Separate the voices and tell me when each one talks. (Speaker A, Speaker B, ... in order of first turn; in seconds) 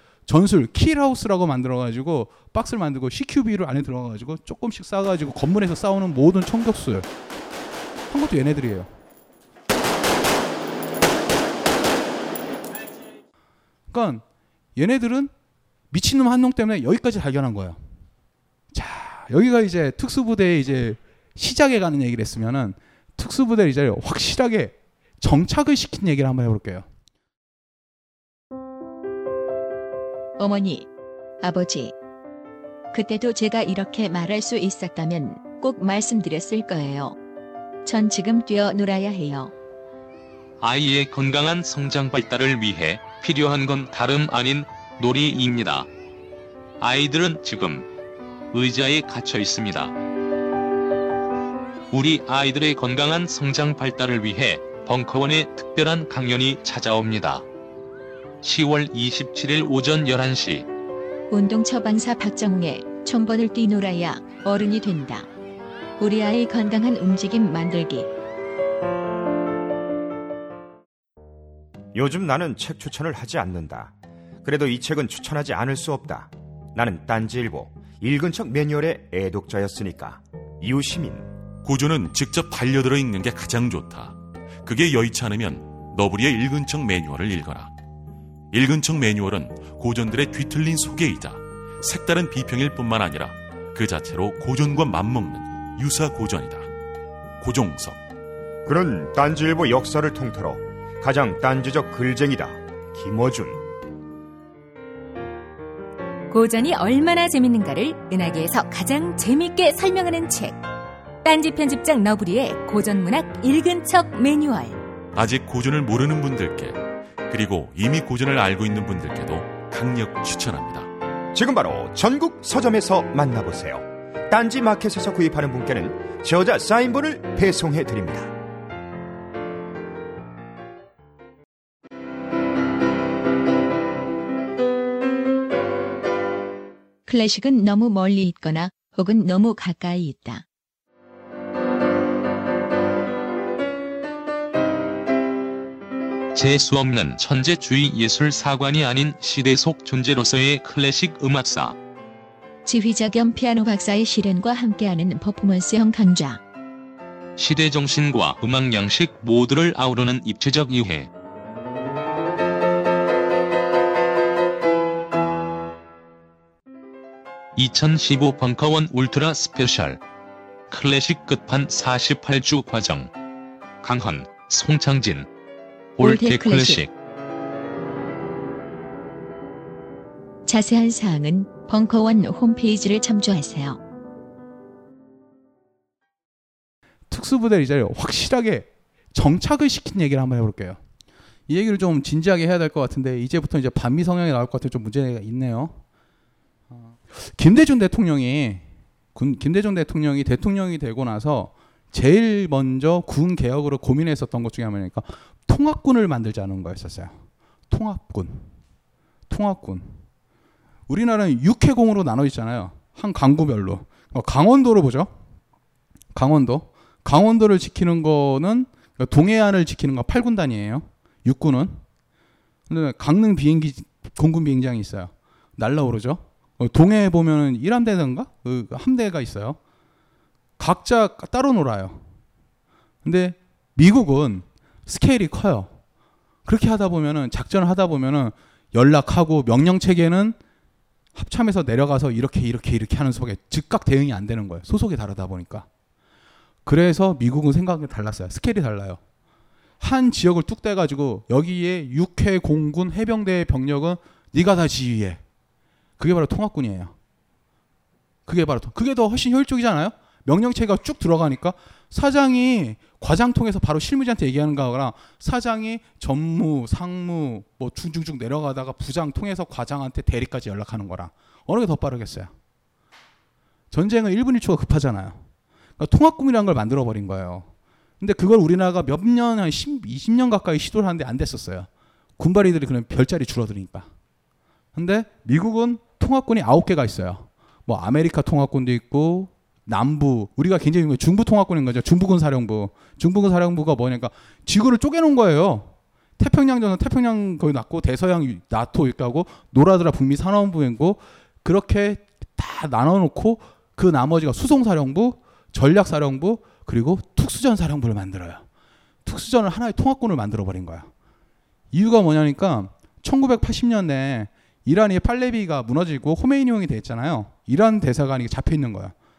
Speaker A: 0.3-7.1, 8.1-8.9, 13.9-14.2, 14.8-15.3, 15.9-17.8, 18.7-26.9, 187.1-190.8, 191.5-195.8, 196.8-207.2, 207.7-208.5, 209.3-210.0, 210.9-215.1, 216.1-221.8, 222.7-229.6, 230.6-232.0, 233.0-235.7, 236.5-240.4, 241.2-245.7, 246.7-249.0, 249.8-255.2, 256.0-256.9, 258.3-272.3, 273.7-275.2, 275.8-277.5, 278.0-283.9, 284.8-308.4, 309.1-310.9, 311.7-318.9
Speaker B: 30.4-30.9, 31.4-31.9, 32.9-37.2, 37.9-39.5, 61.3-65.3, 66.0-68.1, 137.1-140.4, 152.7-156.4, 176.0-176.8, 180.5-183.8
Speaker C: 40.6-45.9, 46.8-47.9, 48.5-49.9, 51.9-57.5, 58.4-60.7, 146.3-151.8, 157.4-161.1, 167.6-170.0, 170.7-173.1, 173.8-175.3, 176.0-176.9
Speaker D: 71.9-81.3, 98.7-103.6, 121.3-128.3
Speaker E: 81.6-87.7, 88.5-96.7, 97.4-98.0, 115.1-120.9
Speaker F: 106.3-110.6, 111.2-114.8